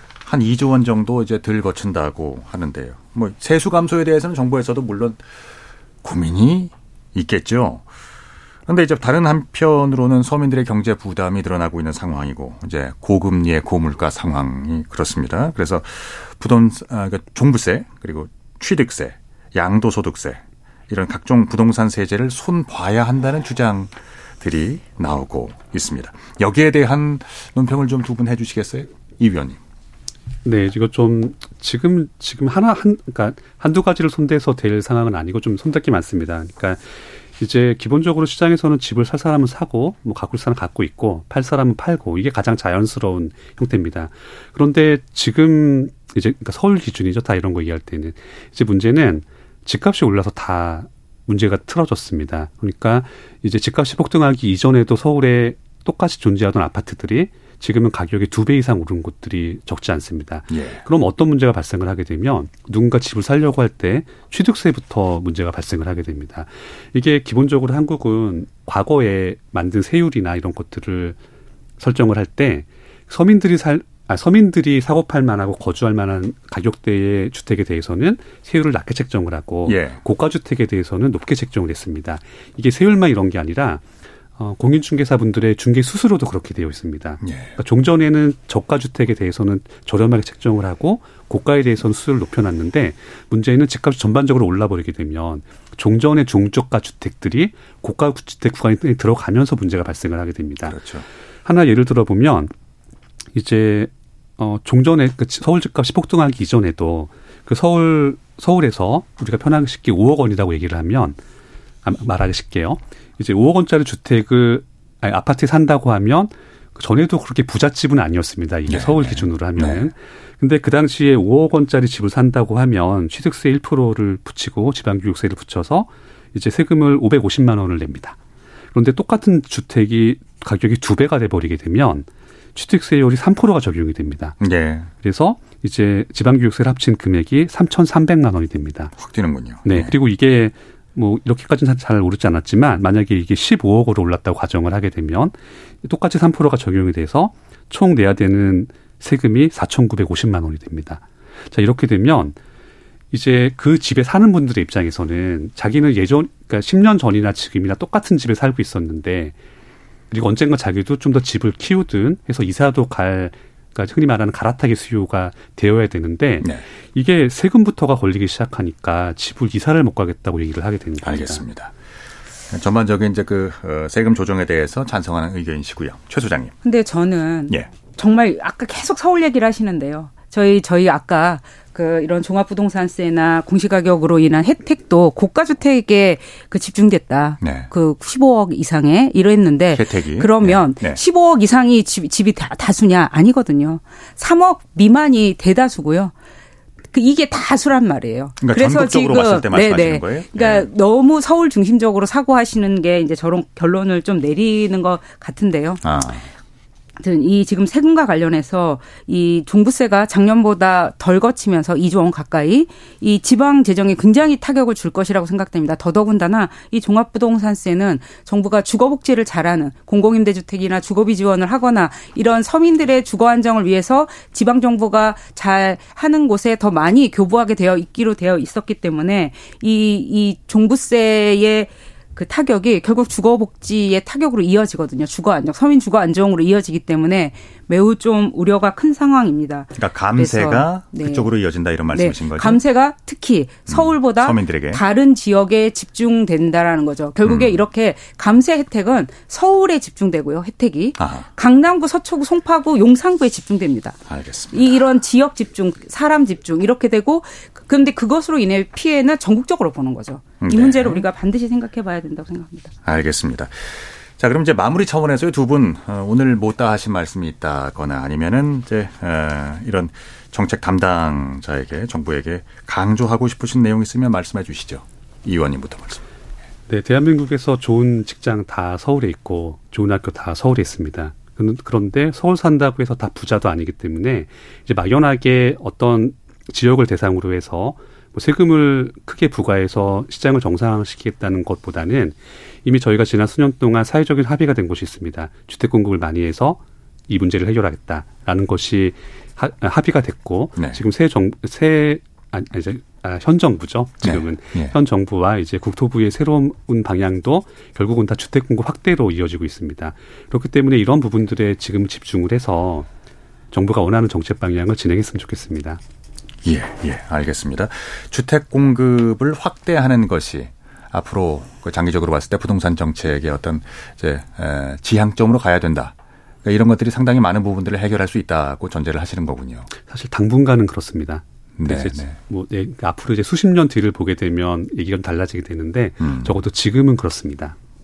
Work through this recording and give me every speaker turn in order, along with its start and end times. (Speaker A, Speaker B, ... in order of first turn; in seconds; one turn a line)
Speaker A: 0.2-5.2
Speaker A: 6.0-7.8
Speaker A: 8.7-29.6
Speaker B: 30.4-71.2
Speaker A: 60.5-60.8
Speaker B: 71.8-83.8
Speaker A: 79.7-80.0
Speaker B: 84.4-100.8
Speaker A: 87.2-87.6
Speaker A: 100.6-101.0
Speaker B: 101.4-102.5
Speaker B: 103.3-111.2
Speaker B: 111.8-128.2
Speaker A: 118.7-119.9
Speaker B: 128.7-134.4
Speaker A: 134.4-134.9
Speaker B: 135.0-138.9
Speaker A: 139.0-139.9
Speaker B: 139.6-152.3
Speaker B: 153.1-159.3
Speaker B: 160.1-171.4
Speaker A: 171.0-171.7
Speaker A: 172.5-176.5
Speaker C: 176.6-196.1
Speaker A: 187.4-187.7
Speaker A: 189.7-191.0
Speaker C: 196.9-205.8
Speaker A: 198.4-200.7
Speaker A: 205.8-206.2
Speaker C: 207.0-241.3
Speaker A: 239.8-242.6
Speaker C: 241.9-254.0
Speaker A: 243.7-244.8
Speaker A: 247.2-247.6
Speaker A: 251.0-251.3
Speaker A: 254.1-254.8
Speaker C: 254.5-262.7
Speaker A: 260.4-261.1
Speaker A: 262.8-276.0
Speaker B: 276.7-312.9
Speaker A: 304.0-304.7
Speaker B: 313.5-315.8
Speaker A: 316.4-329.7
Speaker B: 329.9-337.6
Speaker A: 331.6-332.1
Speaker A: 336.0-336.3